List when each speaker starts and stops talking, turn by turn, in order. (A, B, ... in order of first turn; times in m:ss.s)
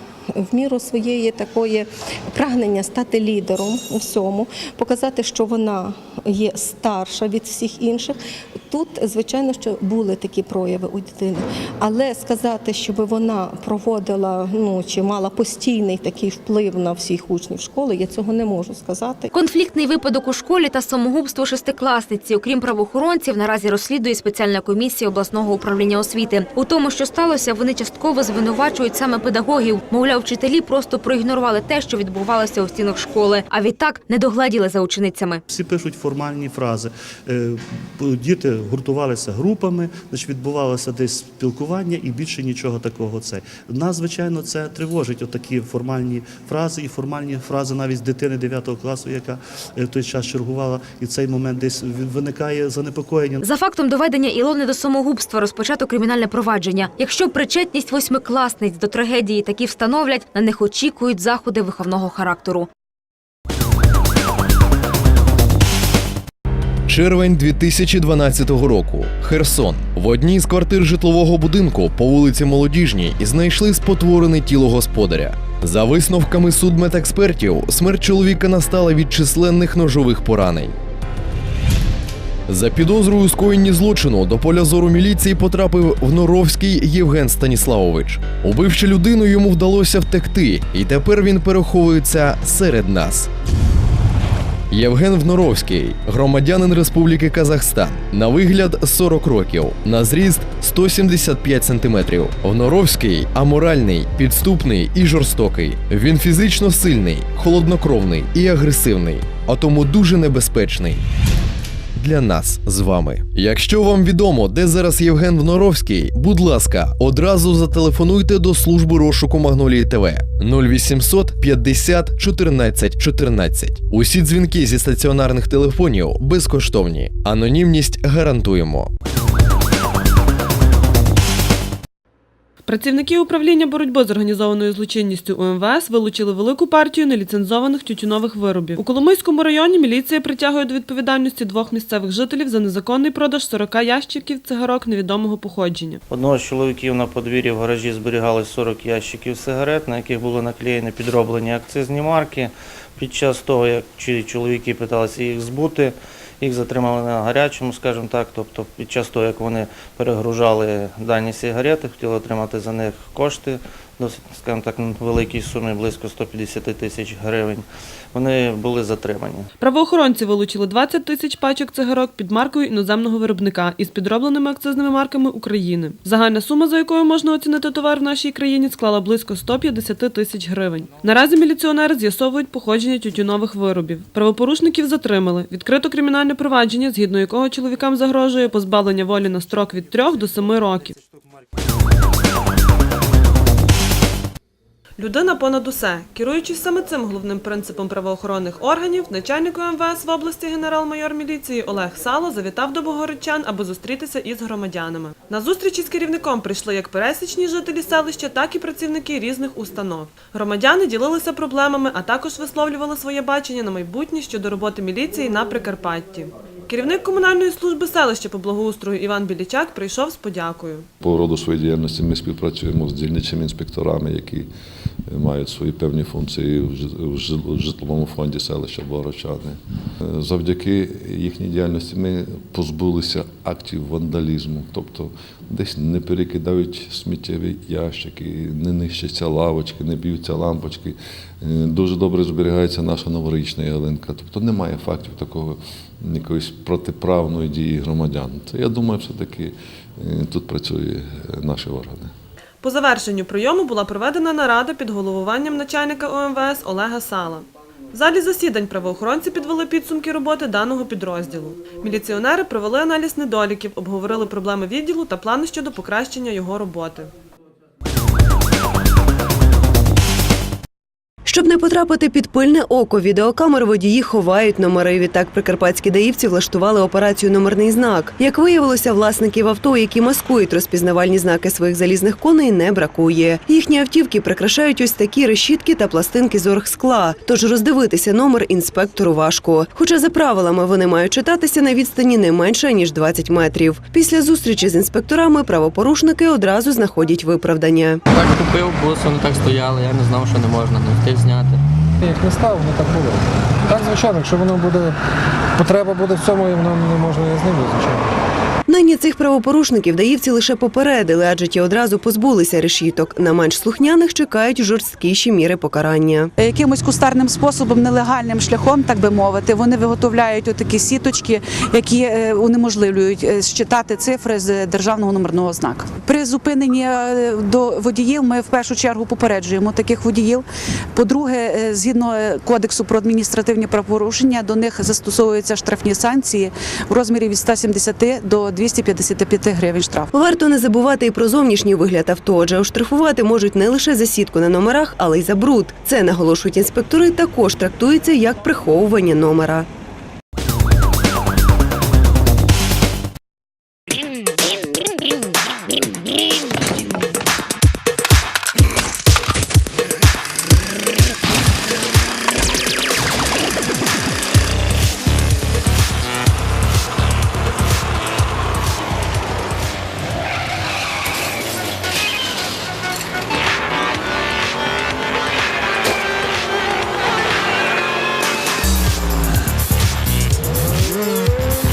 0:00.4-0:08.2 A
0:08.7-0:19.2 A
0:19.3-0:35.4 B
0:35.5-0:53.4 C
0:53.4-1:02.7 B
1:06.9-1:20.8 D
1:22.5-1:33.3 D
1:34.7-1:51.0 D
1:52.0-2:08.9 D
2:12.6-2:26.0 E
2:26.1-2:49.5 F
2:49.6-3:11.0 E
3:15.0-3:40.9 E
3:41.0-3:44.5 G
3:45.1-4:12.1 G
4:12.6-4:27.1 E
4:31.2-4:58.0 H
4:58.1-5:01.6 I
5:02.0-5:05.0 J
5:05.6-5:08.1 J
5:08.7-5:16.3 H
5:16.4-5:30.4 K
5:30.9-5:40.1 K
5:40.1-5:49.7 H